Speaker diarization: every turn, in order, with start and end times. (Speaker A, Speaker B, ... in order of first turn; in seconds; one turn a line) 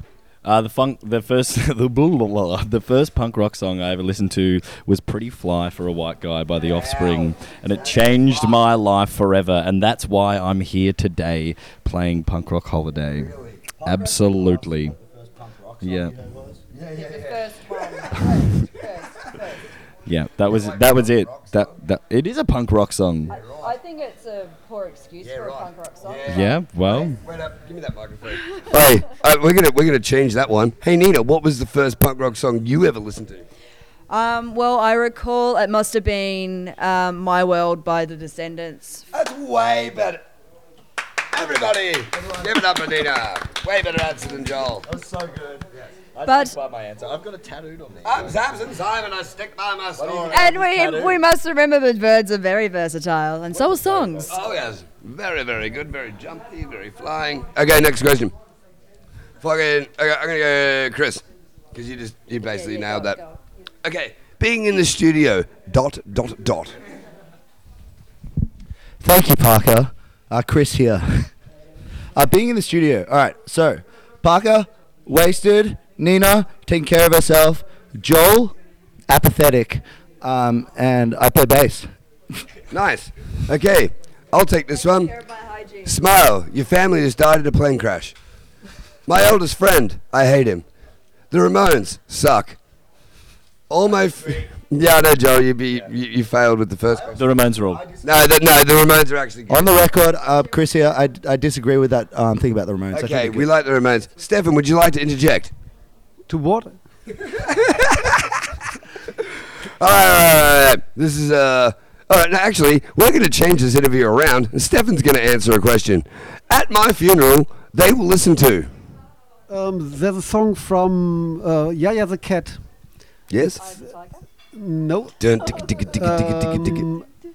Speaker A: 0.4-15.0
Speaker B: 6.7-8.6
Speaker B: 13.2-13.6
Speaker C: 13.8-16.6
Speaker A: 15.8-16.1
Speaker B: 16.7-17.4
Speaker D: 16.9-19.5
Speaker A: 20.1-23.3
Speaker B: 20.4-21.8
Speaker D: 23.3-26.6
Speaker B: 23.3-23.7
Speaker B: 25.2-33.5
Speaker A: 26.3-27.2
Speaker D: 34.1-39.0
Speaker B: 39.1-40.2
Speaker B: 41.3-44.9
Speaker C: 44.8-45.7
Speaker A: 46.1-48.4
Speaker D: 46.2-46.6
Speaker B: 48.0-50.6
Speaker A: 50.0-51.2
Speaker D: 50.3-54.3
Speaker A: 53.5-54.5
Speaker B: 54.3-58.3
Speaker B: 59.4-63.2
Speaker D: 62.4-63.4
Speaker B: 63.8-66.8
Speaker C: 69.0-71.3
Speaker C: 72.2-78.5
Speaker C: 79.1-81.9
Speaker B: 82.7-85.1
Speaker D: 84.7-86.0
Speaker B: 85.8-88.2
Speaker B: 89.1-90.6
Speaker B: 91.3-92.6
Speaker B: 93.7-97.2
Speaker A: 97.1-97.9
Speaker C: 97.7-98.1
Speaker B: 98.0-99.7
Speaker C: 99.5-103.5
Speaker D: 100.2-100.6
Speaker B: 102.9-105.5
Speaker E: 106.3-106.8
Speaker B: 107.2-118.7
Speaker E: 119.5-122.7
Speaker B: 123.3-123.6
Speaker D: 123.6-124.2
Speaker E: 124.5-125.2
Speaker B: 125.2-126.9
Speaker D: 125.4-126.1
Speaker E: 125.9-127.1